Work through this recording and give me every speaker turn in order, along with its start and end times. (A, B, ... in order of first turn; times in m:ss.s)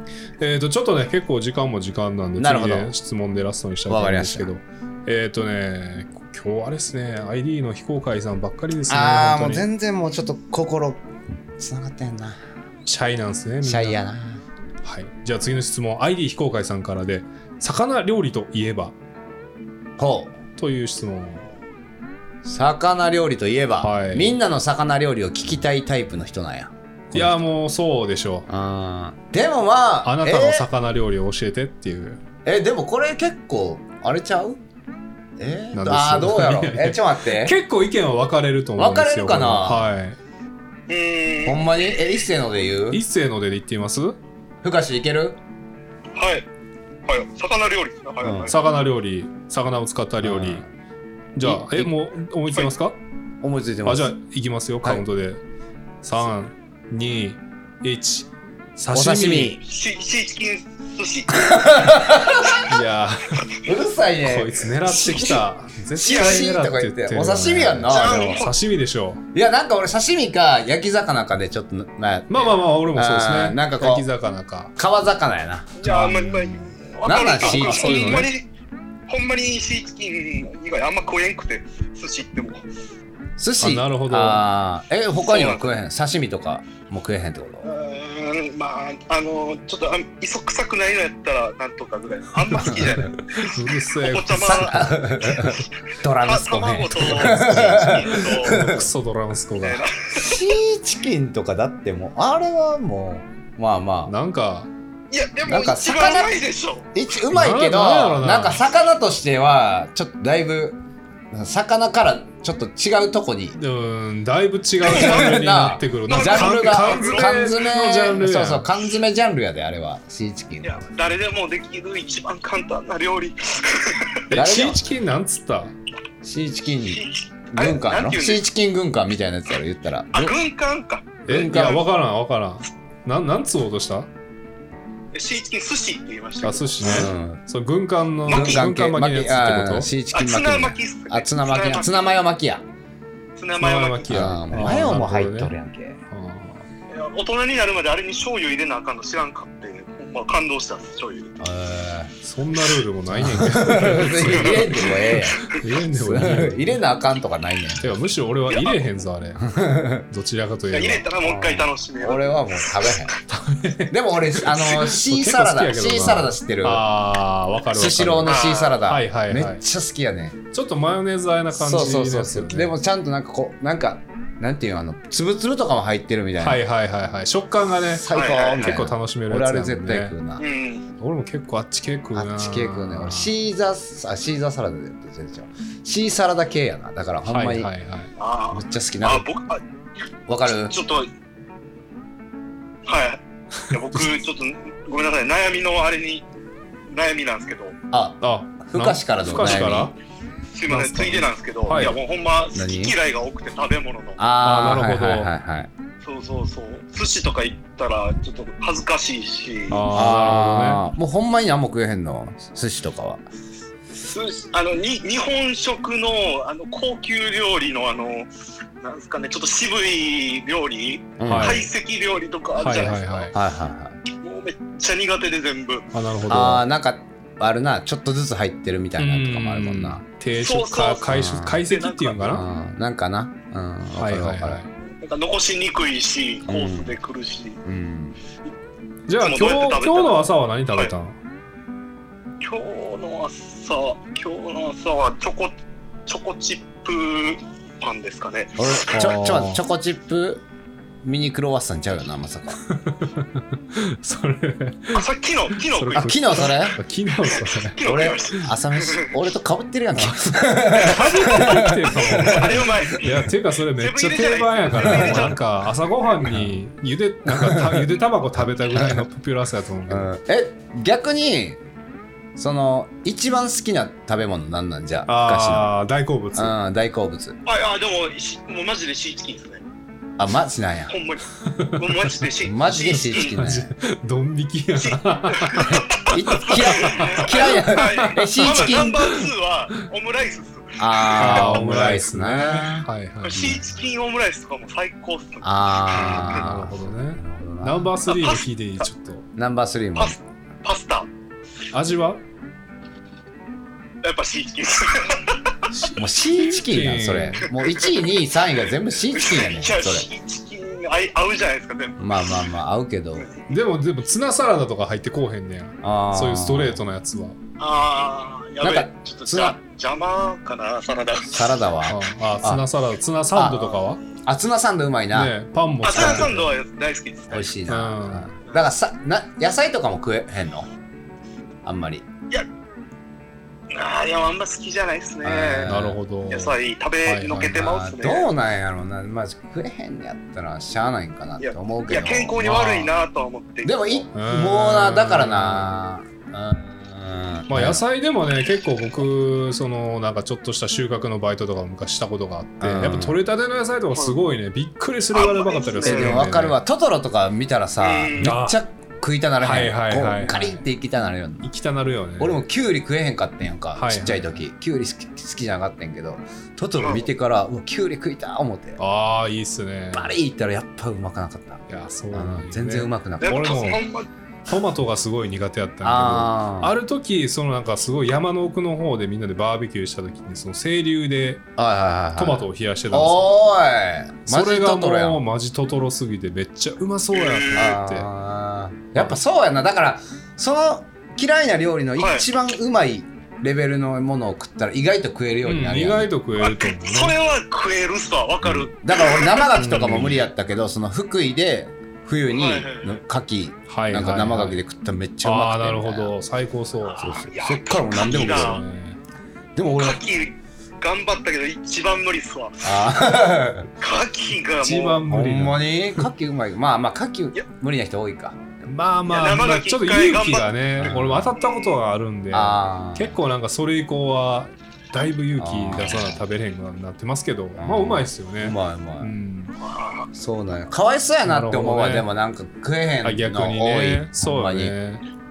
0:00.4-0:09.6 A
0:02.4-0:02.9 B
0:03.9-0:04.5 B
0:08.9-0:11.0 B
0:11.6-0:12.4 B
0:12.8-0:14.0 A
0:13.6-0:14.4 B
0:14.8-0:18.9 A
0:20.0-0:20.4 B
0:20.6-0:21.5 A
0:22.4-0:27.4 B
0:23.8-0:24.4 A
0:27.1-0:28.5 A
0:28.5-0:30.7 B
0:30.0-0:32.2 A
0:32.4-0:34.6 B
0:35.4-0:37.6 B
0:35.7-0:40.2 A
0:38.8-0:39.9 B
0:40.9-0:41.8 C
0:41.4-0:43.0 B
0:42.9-0:44.2 A
0:44.6-0:45.4 B
0:46.1-0:46.5 C
0:47.1-0:48.5 C
0:48.2-0:48.5 B
0:48.5-0:50.6 A
0:50.2-0:50.7 B
0:51.3-0:53.0 A
0:51.4-0:51.9 B
0:53.4-0:54.1 B
0:53.8-0:55.4 A
0:56.0-0:59.6 A
0:58.9-0:59.6 B
0:59.6-1:02.5 C
1:01.3-1:02.6 B
1:02.6-1:03.5 A
1:03.6-1:08.4 B
1:04.2-1:09.2 A
1:07.9-1:08.5 C
1:09.3-1:14.1 B
1:12.3-1:14.7 A
1:14.8-1:15.7 B
1:15.8-1:18.4 C
1:15.8-1:16.8 A
1:17.0-1:18.3 B
1:17.4-1:18.3 A
1:19.1-1:22.6 C
1:23.4-1:27.7 B
1:23.6-1:24.4 A
1:25.2-1:25.7 C
1:27.6-1:35.6 C
1:32.5-1:34.9 A
1:32.6-1:32.9 B
1:34.3-1:38.9 B
1:36.2-1:38.6 C
1:38.1-1:39.9 A
1:39.6-1:40.4 C
1:40.1-1:44.1 B
1:44.0-1:44.7 A
1:45.1-1:46.9 C
1:45.5-1:46.3 B
1:46.9-1:50.8 B
1:47.3-1:48.6 A
1:51.3-1:53.6 B
1:53.6-1:58.6 A
1:54.8-2:00.8 B
1:54.8-1:55.4 C
1:56.1-1:57.5 C
2:00.6-2:04.2 C
2:04.3-2:05.7 A
2:04.3-2:04.8 B
2:06.2-2:10.4 B
2:06.9-2:08.4 C
2:10.1-2:11.7 C
2:11.3-2:11.8 B
2:11.3-2:14.1 A
2:15.1-2:17.0 C
2:16.4-2:19.9 A
2:16.8-2:17.4 B
2:18.2-2:22.6 B
2:18.3-2:18.6 C
2:20.1-2:22.1 C
2:23.4-2:24.4 C
2:23.6-2:25.5 A
2:24.1-2:26.0 B
2:26.1-2:26.6 A
2:26.9-2:31.4 C
2:31.4-2:32.1 B
2:32.2-2:36.8 A
2:33.1-2:37.9 B
2:34.3-2:35.6 C
2:37.8-2:39.5 A
2:38.5-2:38.9 C
2:39.4-2:40.0 B
2:40.1-2:41.1 A
2:40.7-2:43.1 C
2:41.2-2:43.2 B
2:43.3-2:49.6 A
2:43.9-2:46.8 B
2:47.7-2:50.4 B
2:48.2-2:48.8 C
2:50.5-2:52.7 A
2:51.5-2:56.6 B
2:56.4-3:00.1 A
2:57.9-3:00.4 B
2:58.1-2:58.8 C
3:00.4-3:00.8 C
3:01.0-3:03.3 A
3:02.1-3:07.7 B
3:07.2-3:08.1 A
3:08.2-3:09.6 C
3:08.5-3:09.2 B
3:10.3-3:10.7 B
3:10.6-3:11.1 C
3:12.8-3:16.2 C
3:16.9-3:17.8 C
3:17.9-3:19.9 B
3:18.2-3:19.9 A
3:20.5-3:24.2 C
3:20.7-3:22.0 A
3:22.5-3:22.9 B
3:24.2-3:25.7 B
3:24.4-3:25.3 A
3:26.0-3:29.8 C
3:29.7-3:30.8 A
3:29.9-3:33.2 B
3:33.9-3:38.3 C
3:38.8-3:43.3 C
3:41.2-3:41.6 B
3:41.2-3:41.7 A
3:42.6-3:43.4 A
3:43.3-3:44.0 B
3:44.2-3:45.9 C
3:45.9-3:46.6 A
3:46.3-3:50.0 B
3:49.0-3:52.4 A
3:50.4-3:52.4 C
3:51.1-3:51.6 B
3:52.2-3:54.6 B
3:54.0-3:54.7 A
3:54.9-3:57.6 C
3:56.4-3:57.0 B
3:57.6-3:58.2 B
3:59.1-4:01.2 A
3:59.2-4:00.9 C
4:02.4-4:05.5 C
4:06.1-4:08.8 C
4:08.6-4:10.4 B
4:08.9-4:09.6 A
4:11.0-4:12.6 B
4:12.6-4:17.8 A
4:14.9-4:16.5 C
4:15.9-4:16.8 B
4:17.2-4:19.1 C
4:17.8-4:22.6 B
4:20.0-4:30.1 A
4:20.8-4:25.4 C
4:24.8-4:25.3 B
4:26.2-4:26.5 B
4:27.3-4:27.9 B
4:28.7-4:29.0 B
4:29.9-4:31.6 B
4:32.4-4:35.7 B
4:35.1-4:36.5 A
4:36.3-4:37.4 B
4:37.4-4:39.6 C
4:40.2-4:40.9 B
4:40.9-4:43.4 C
4:41.4-4:42.2 A
4:42.4-4:43.7 B
4:43.2-4:49.2 A
4:44.8-4:51.4 C
4:45.7-4:49.2 B
4:50.8-4:53.6 B
4:51.2-4:53.5 A
4:53.2-4:55.6 C
4:55.4-4:57.9 B
4:55.9-4:59.2 A
4:56.1-4:56.5 C
4:58.1-4:58.4 C
4:59.4-5:00.2 B
4:59.9-5:01.1 C
5:01.7-5:02.2 A
5:04.0-5:05.6 C
5:05.7-5:07.4 A
5:05.9-5:10.1 B
5:07.4-5:08.0 C
5:09.1-5:12.3 C
5:12.0-5:13.3 B
5:13.2-5:13.4 C
5:13.5-5:17.4 A
5:15.8-5:16.8 B
5:17.6-5:21.5 C
5:18.6-5:19.6 B
5:21.3-5:22.6 B
5:21.8-5:24.0 A
5:23.3-5:23.7 B
5:24.2-5:25.3 B
5:25.1-5:26.5 A
5:25.8-5:27.5 C
5:25.9-5:26.3 B
5:27.3-5:30.7 B
5:27.7-5:28.3 A
5:31.6-5:32.0 B
5:33.7-5:35.7 C
5:35.2-5:36.0 B
5:35.6-5:37.6 A
5:36.3-5:38.3 C
5:37.5-5:42.6 B
5:41.4-5:44.0 C
5:42.4-5:42.9 A
5:43.6-5:47.8 B
5:44.1-5:45.8 A
5:47.5-5:56.6 A
5:52.6-5:53.2 B
5:55.1-5:56.2 C
5:55.8-6:01.5 B
5:57.8-5:58.3 C
5:58.2-5:58.6 A
5:59.4-6:00.6 A
6:01.4-6:02.4 A
6:02.2-6:08.8 B
6:03.7-6:04.4 A
6:06.8-6:07.0 C
6:08.8-6:10.1 A
6:09.9-6:13.8 B
6:11.7-6:13.8 A
6:13.2-6:14.1 C
6:14.5-6:21.4 A
6:15.8-6:16.7 B
6:21.6-6:25.2 B
6:22.1-6:23.3 A
6:24.3-6:28.1 A
6:27.1-6:27.8 C
6:27.5-6:36.1 B
6:32.0-6:32.3 C
6:35.4-6:37.1 A
6:36.4-6:40.1 C
6:38.4-6:46.1 B
6:39.6-6:40.2 A
6:42.3-6:43.0 C
6:43.7-6:44.6 A
6:45.2-6:47.2 A
6:46.8-6:48.6 C
6:47.0-6:48.6 B
6:48.0-6:49.0 A
6:49.6-6:50.0 B
6:49.6-6:52.9 C
6:52.6-6:53.7 B
6:53.8-6:55.0 C
6:54.6-6:56.1 A
6:55.0-6:58.4 B
6:58.7-7:09.6 A
6:59.1-7:01.8 C
7:00.8-7:01.4 B
7:02.3-7:03.2 B
7:05.4-7:06.2 B
7:07.6-7:09.1 B
7:09.6-7:10.1 C
7:10.1-7:14.7 B
7:11.2-7:12.1 A
7:13.0-7:15.0 A